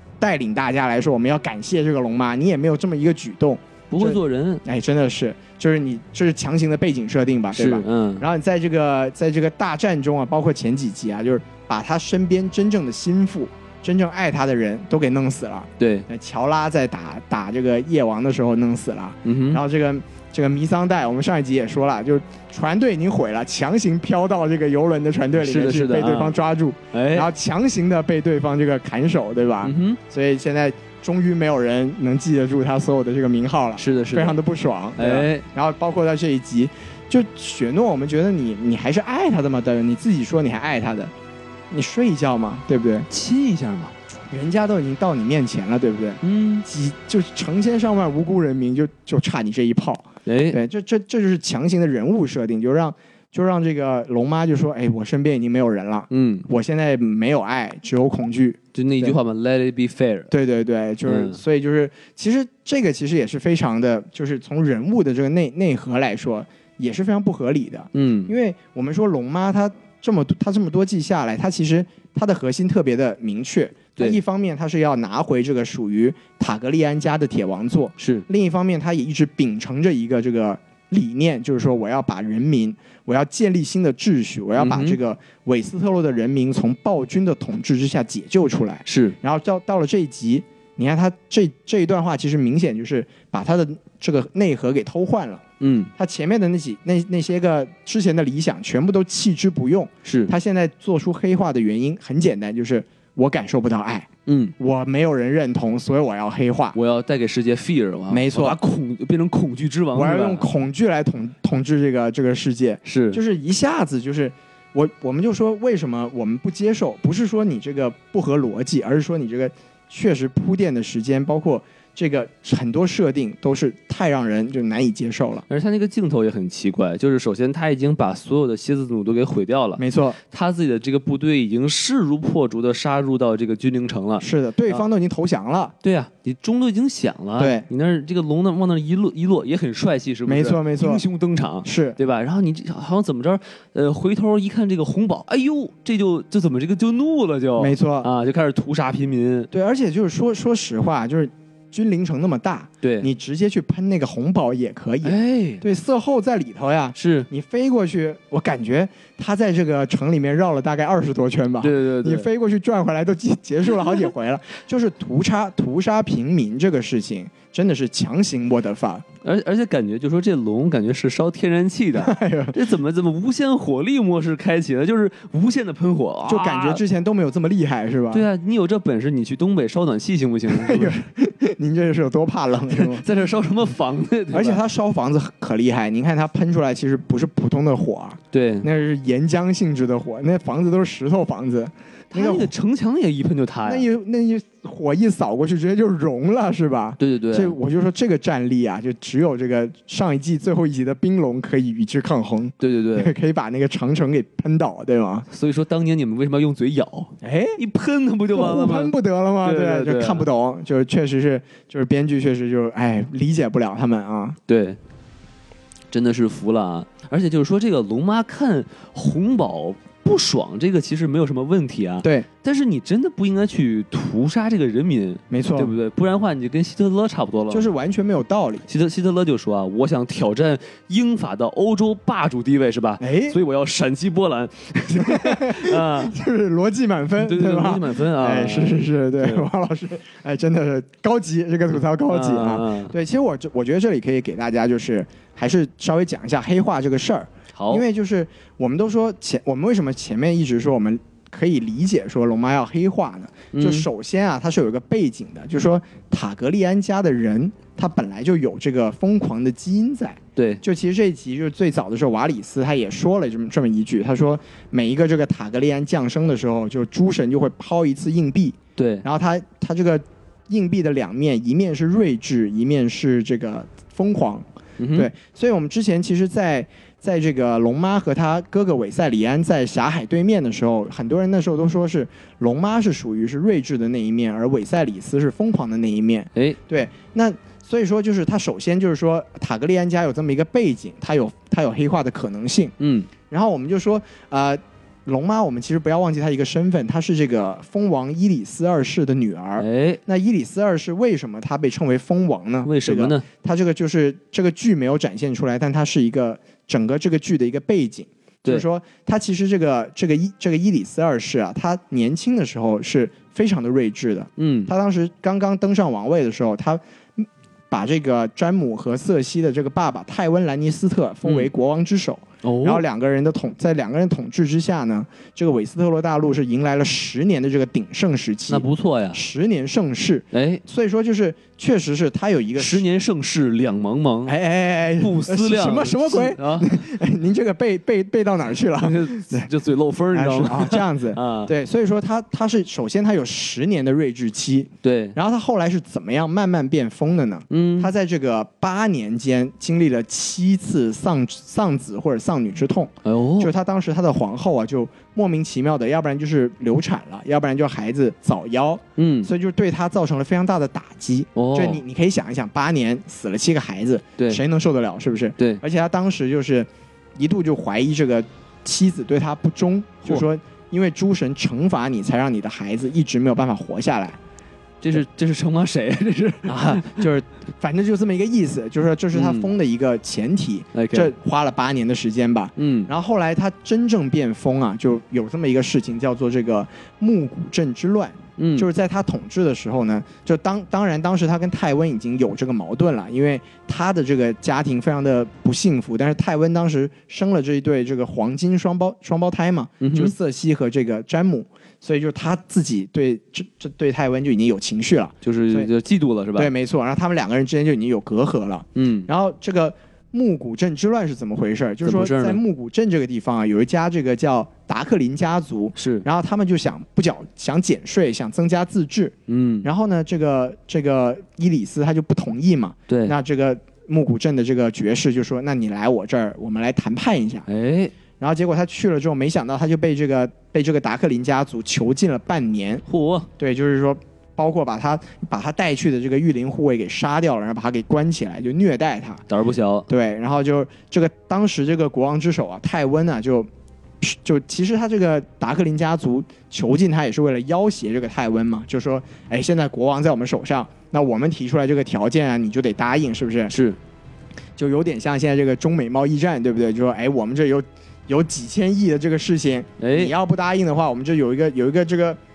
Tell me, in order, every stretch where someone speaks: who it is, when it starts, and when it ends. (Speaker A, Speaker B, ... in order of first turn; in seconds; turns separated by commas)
Speaker A: 0.2-41.1, Speaker B: 3.9-4.6, Speaker B: 7.5-8.2, Speaker B: 15.8-16.1, Speaker B: 19.2-19.6, Speaker B: 25.4-26.4, Speaker B: 26.9-27.3, Speaker B: 29.6-30.0, Speaker B: 33.8-34.4, Speaker B: 35.0-35.5, Speaker A: 41.7-43.1, Speaker B: 43.1-44.0, Speaker A: 44.3-59.2, Speaker B: 46.2-46.6, Speaker B: 50.3-50.6, Speaker B: 56.1-56.5, Speaker B: 58.8-60.3, Speaker A: 60.3-95.4, Speaker B: 61.0-61.4, Speaker B: 67.9-68.3, Speaker B: 78.0-78.3, Speaker B: 84.6-85.0, Speaker B: 88.9-89.2, Speaker B: 95.6-95.9, Speaker A: 96.0-104.1, Speaker B: 100.0-100.3, Speaker B: 104.3-104.5, Speaker A: 104.6-106.8, Speaker B: 106.7-110.5, Speaker A: 108.1-108.6, Speaker A: 109.9-125.5, Speaker B: 112.8-113.2, Speaker B: 125.5-134.8, Speaker A: 129.8-130.2, Speaker A: 134.2-135.7, Speaker B: 135.8-149.5, Speaker A: 137.4-137.7, Speaker A: 140.3-141.1, Speaker A: 141.6-142.0, Speaker A: 147.6-148.1, Speaker A: 149.5-169.1, Speaker B: 152.8-153.1, Speaker B: 155.0-155.6, Speaker B: 157.0-157.3, Speaker B: 161.6-162.3, Speaker B: 169.2-176.8, Speaker A: 172.0-172.6, Speaker A: 176.3-178.3, Speaker B: 178.1-181.0, Speaker A: 180.5-183.1, Speaker B: 182.7-184.6, Speaker A: 184.3-192.5, Speaker B: 188.3-188.7, Speaker B: 192.1-193.9, Speaker A: 193.7-205.3, Speaker B: 197.0-197.6, Speaker B: 202.6-203.1, Speaker B: 205.3-210.3, Speaker A: 207.2-207.6, Speaker A: 208.3-214.4, Speaker B: 214.5-214.8, Speaker B: 215.9-227.7, Speaker A: 225.3-225.7, Speaker A: 227.5-228.7, Speaker B: 228.7-236.2, Speaker A: 233.0-233.4, Speaker A: 234.9-292.7, Speaker B: 237.2-239.5, Speaker B: 242.1-242.9, Speaker B: 247.5-247.8, Speaker B: 253.5-253.9, Speaker B: 260.4-260.6, Speaker B: 268.8-269.1, Speaker B: 274.8-275.1, Speaker B: 292.8-293.1, Speaker A: 293.3-332.8, Speaker B: 299.6-300.0, Speaker B: 302.6-303.2, Speaker B: 314.4-314.7, Speaker B: 322.4-322.9, Speaker B: 328.5-329.2, Speaker B: 330.3-330.6, Speaker B: 332.6-334.4, Speaker A: 334.3-339.5, Speaker B: 335.0-336.9, Speaker B: 338.8-341.5, Speaker A: 340.1-374.2, Speaker B: 344.8-345.2, Speaker B: 347.5-347.9, Speaker B: 353.1-353.5, Speaker B: 359.0-359.3, Speaker B: 361.4-361.8, Speaker B: 374.8-377.1, Speaker A: 376.5-405.7, Speaker B: 379.1-379.5, Speaker B: 380.7-381.1, Speaker B: 382.6-382.9, Speaker B: 388.4-388.7, Speaker B: 399.8-400.1, Speaker B: 405.2-406.5, Speaker A: 406.4-427.5, Speaker B: 408.8-409.1, Speaker B: 411.8-412.4, Speaker B: 415.8-416.1, Speaker B: 419.3-419.7, Speaker B: 422.9-423.1, Speaker B: 427.5-427.9, Speaker A: 428.2-432.8, Speaker B: 432.9-433.3, Speaker A: 433.4-439.2, Speaker B: 439.3-439.9, Speaker A: 439.9-443.5, Speaker A: 444.0-453.5, Speaker B: 453.5-453.8, Speaker A: 454.6-462.2, Speaker B: 459.8-460.1